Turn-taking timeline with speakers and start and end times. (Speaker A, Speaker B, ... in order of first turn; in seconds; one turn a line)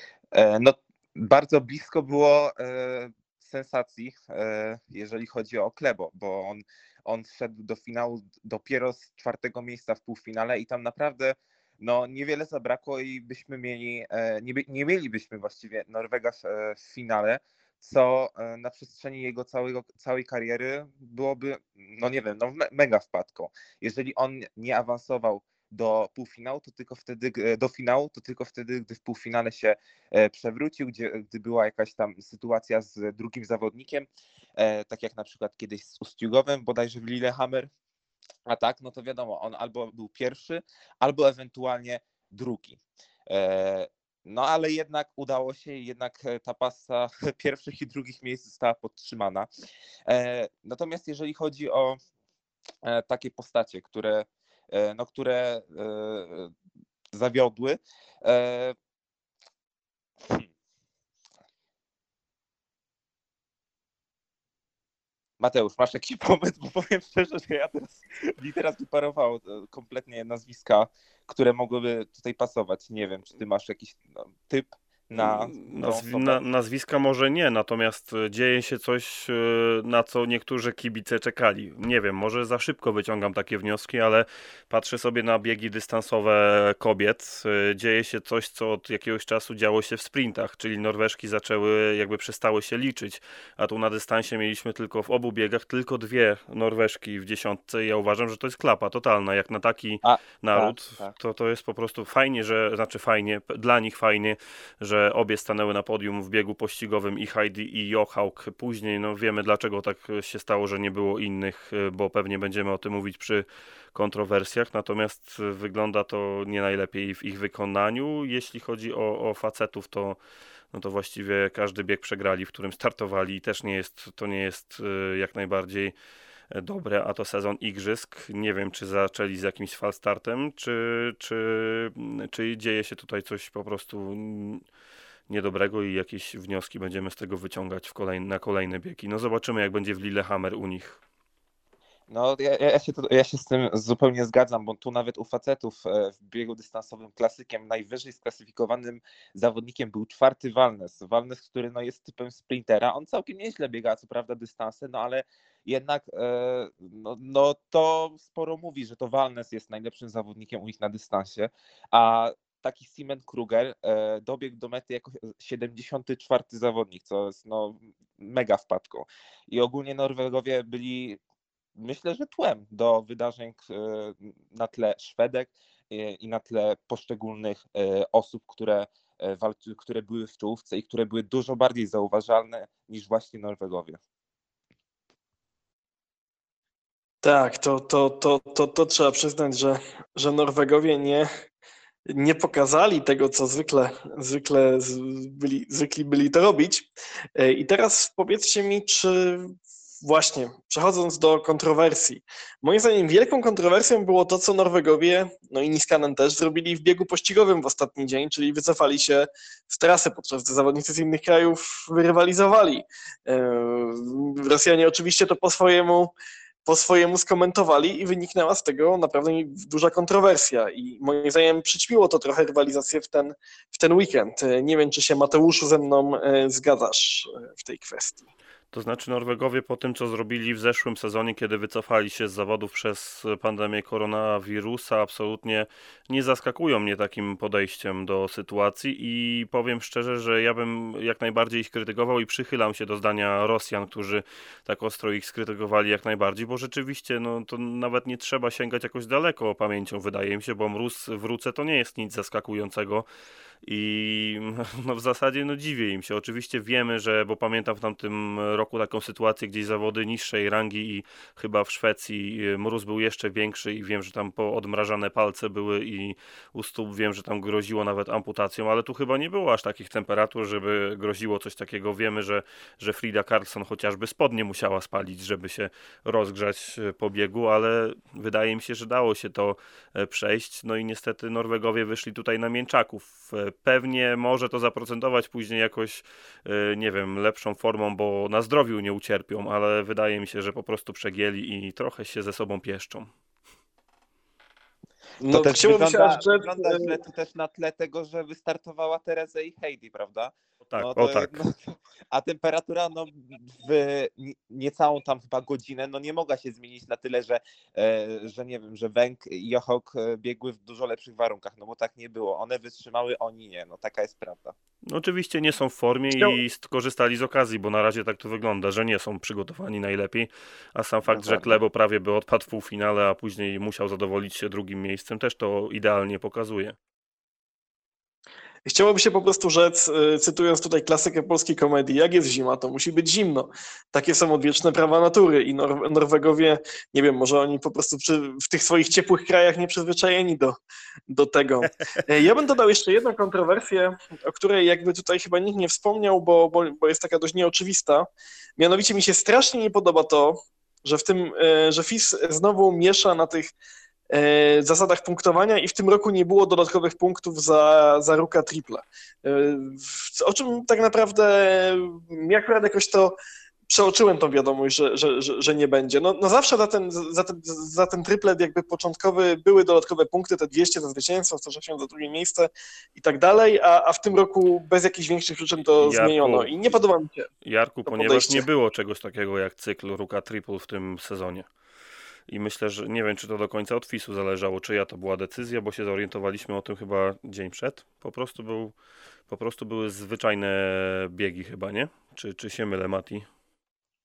Speaker A: 0.3-37.7
Speaker A: 38.5-49.5
Speaker A: 50.1-52.0
Speaker A: 52.8-56.5
Speaker A: 57.1-58.8
Speaker A: 65.4-76.4
Speaker B: 75.2-120.2
Speaker A: 100.0-101.1
Speaker B: 120.7-125.9
Speaker B: 126.5-134.6
Speaker B: 135.3-141.0
Speaker A: 142.1-171.2
Speaker A: 171.8-184.0
Speaker C: 187.2-191.3
Speaker C: 192.1-216.1
Speaker C: 216.7-228.2
Speaker B: 228.7-253.1
Speaker B: 253.6-293.1
Speaker C: 295.2-297.0
Speaker A: 295.3-314.5
Speaker B: 300.7-301.4
Speaker B: 314.9-326.8
Speaker A: 321.1-321.6
Speaker C: 328.6-348.1
Speaker C: 348.6-353.5
Speaker C: 354.1-363.1
Speaker C: 363.7-377.3
Speaker B: 375.8-376.8
Speaker B: 377.4-381.5
Speaker C: 377.9-378.4
Speaker B: 382.3-393.2